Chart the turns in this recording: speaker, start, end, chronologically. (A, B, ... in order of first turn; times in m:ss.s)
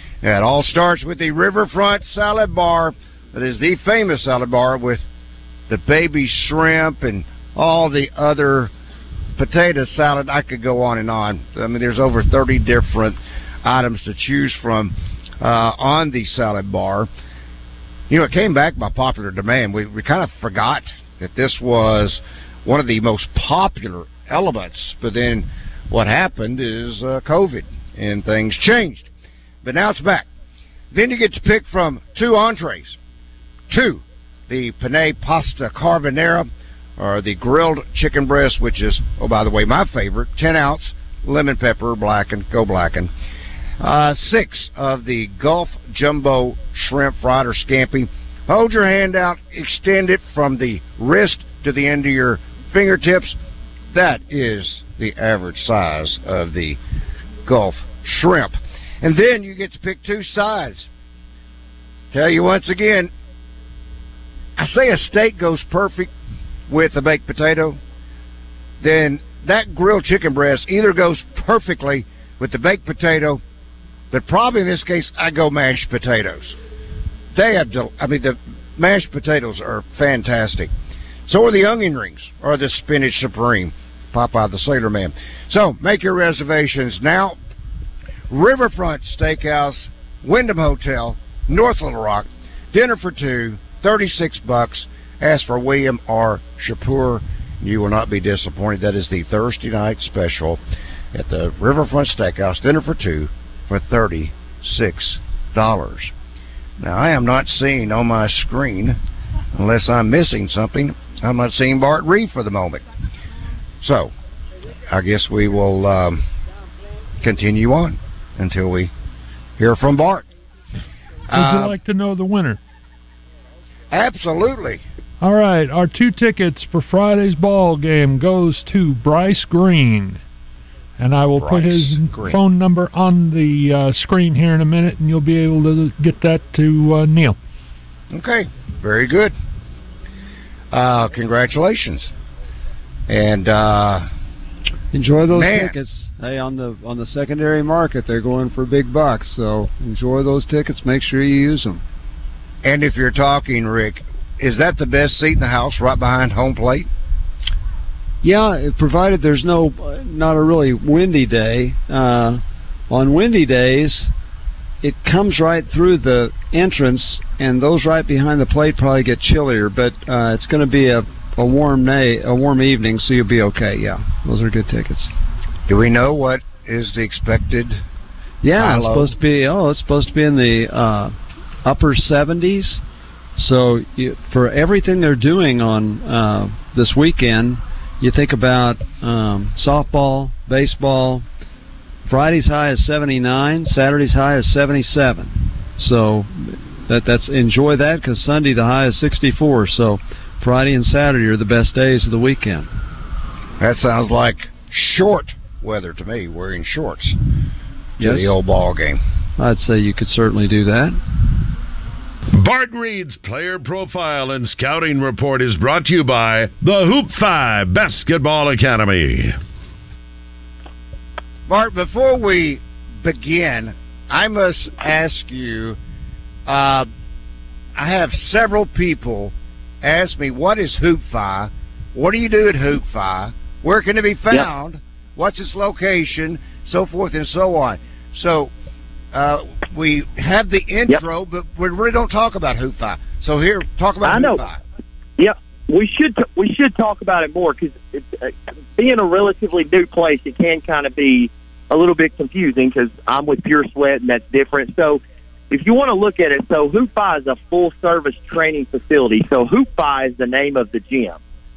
0:00.2-0:05.1 A
0:05.7-0:08.7 A
0:09.4-0:17.1 A
0:18.1-0:29.1 A
0:29.6-0:30.3 A
0:30.9-0:33.0 A
0:33.7-0:43.1 A
0:43.8-0:53.4 A
0:53.9-0:56.8 A
0:57.4-1:00.9 A
1:02.1-1:03.1 A
1:04.6-1:06.1 A
1:06.7-1:07.8 A
1:08.8-1:13.4 A
1:14.1-1:16.6 A
1:17.3-1:20.7 A
1:21.3-1:27.4 A
1:28.3-1:40.6 A
1:41.1-1:46.1 A
1:46.8-1:49.0 A
1:49.6-1:52.8 A
1:53.8-1:54.1 A
1:54.9-1:56.2 A
1:57.2-1:58.9 A
1:59.6-2:00.3 A
2:01.3-2:01.8 A
2:01.3-2:02.6 B
2:03.9-2:04.8 A
2:05.2-2:10.2 B
2:11.0-2:17.4 B
2:11.4-2:12.4 A
2:18.1-2:19.3 A
2:20.7-2:22.1 A
2:23.1-2:24.1 A
2:24.9-2:31.8 C
2:25.3-2:25.8 A
2:32.6-2:36.9 A
2:38.2-2:44.1 C
2:44.8-2:55.1 C
2:55.7-2:57.8 A
2:58.4-3:02.8 C
2:58.6-2:59.2 A
3:03.4-3:11.2 C
3:12.1-3:22.7 C
3:23.6-3:27.2 A
3:28.0-3:28.3 C
3:28.0-3:29.0 A
3:29.4-3:31.0 C
3:32.3-3:39.4 D
3:41.5-3:45.8 A
3:46.5-3:46.9 A
3:47.8-3:58.5 A
3:59.1-4:04.6 A
4:04.1-4:04.4 E
4:05.2-4:21.2 E